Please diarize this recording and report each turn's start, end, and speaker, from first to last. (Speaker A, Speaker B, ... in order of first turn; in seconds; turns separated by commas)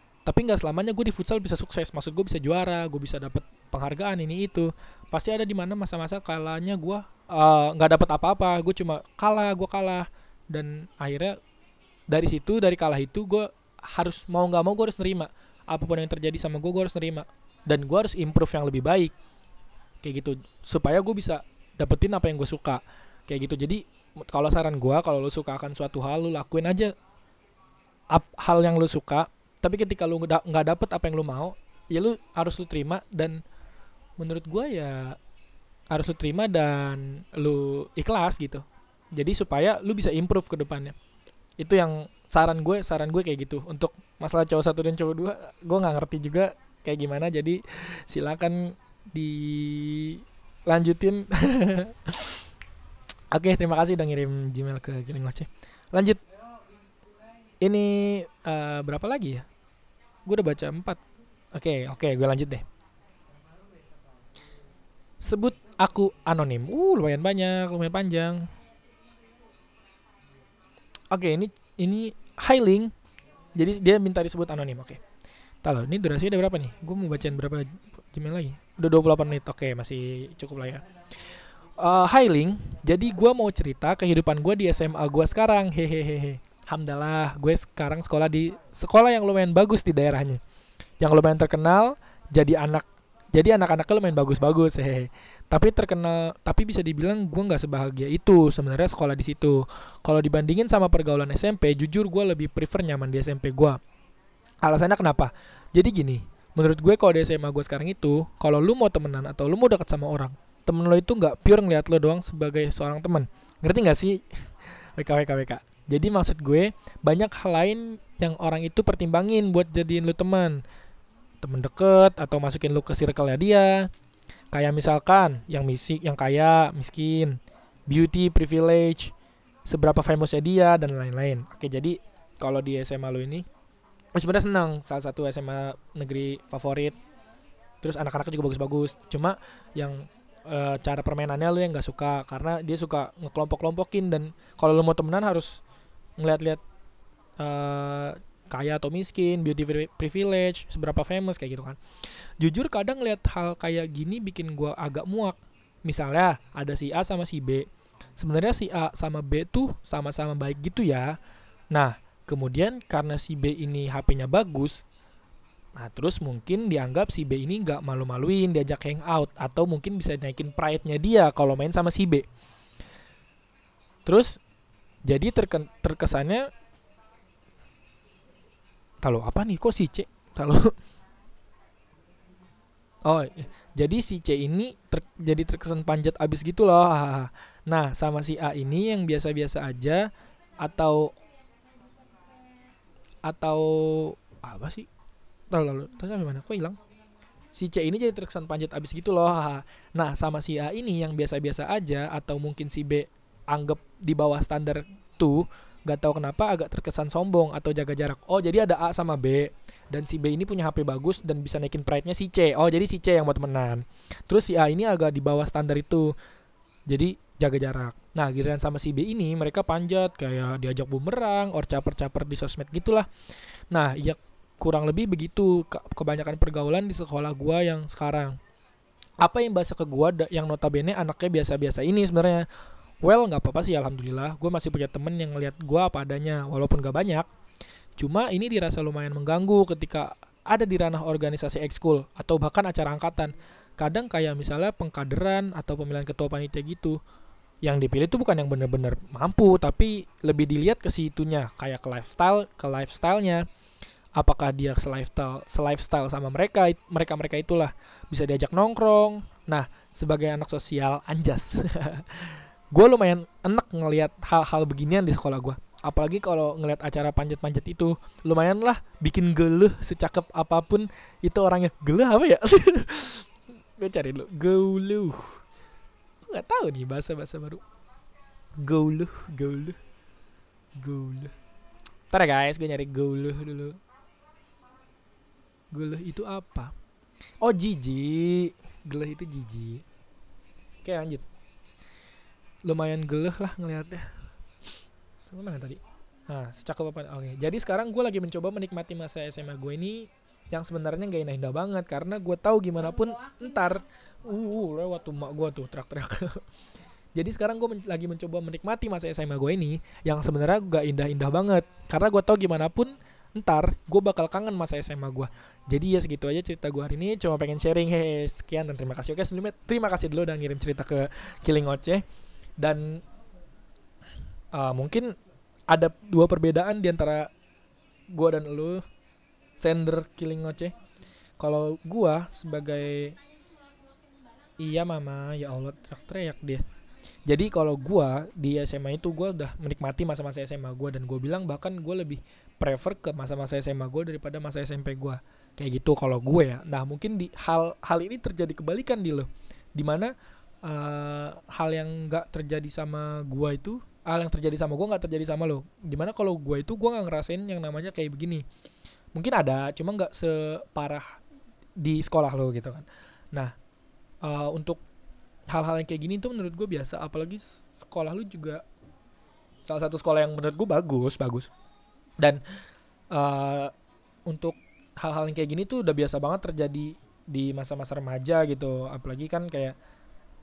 Speaker A: 0.2-11.4, Speaker A: 12.1-19.1, Speaker A: 20.0-26.9, Speaker A: 28.1-33.4, Speaker A: 34.2-35.2, Speaker A: 35.9-41.0, Speaker A: 41.6-52.4, Speaker A: 53.3-56.2, Speaker A: 57.6-59.5, Speaker A: 60.2-61.0, Speaker A: 61.5-62.6, Speaker A: 65.2-68.5, Speaker A: 71.1-72.9, Speaker A: 73.6-75.0, Speaker A: 75.6-80.8, Speaker A: 81.8-90.4, Speaker A: 91.0-103.8, Speaker A: 104.6-120.6, Speaker A: 121.4-123.9, Speaker A: 124.5-129.1, Speaker A: 129.7-133.5, Speaker A: 134.2-137.0, Speaker A: 137.8-145.6, Speaker A: 146.2-146.6, Speaker A: 147.4-161.2, Speaker A: 161.7-164.8, Speaker A: 165.8-172.3, Speaker A: 174.1-174.4, Speaker A: 175.1-176.5, Speaker A: 179.0-180.7, Speaker A: 183.1-191.2, Speaker A: 193.2-194.9, Speaker A: 195.5-196.8, Speaker A: 197.5-216.2, Speaker A: 216.9-223.1, Speaker A: 223.7-228.4, Speaker A: 229.2-232.5, Speaker A: 233.0-237.3, Speaker A: 238.0-247.0, Speaker A: 247.6-253.4, Speaker A: 254.2-275.4, Speaker A: 276.2-277.6, Speaker A: 278.6-279.8, Speaker A: 280.8-281.3, Speaker A: 282.1-283.8, Speaker A: 285.7-286.7, Speaker A: 287.4-289.8, Speaker A: 290.8-291.3, Speaker A: 292.6-294.1, Speaker A: 295.3-306.4, Speaker A: 307.1-322.0, Speaker A: 322.6-323.0, Speaker A: 324.5-325.1, Speaker A: 325.7-327.3, Speaker A: 328.1-328.8, Speaker A: 329.6-330.7, Speaker A: 331.4-333.2, Speaker A: 334.6-336.6, Speaker A: 337.3-358.5, Speaker A: 359.1-361.2, Speaker A: 361.8-363.5, Speaker A: 364.2-364.8, Speaker A: 365.5-368.6, Speaker A: 369.7-371.5, Speaker A: 373.1-373.7, Speaker A: 374.3-379.8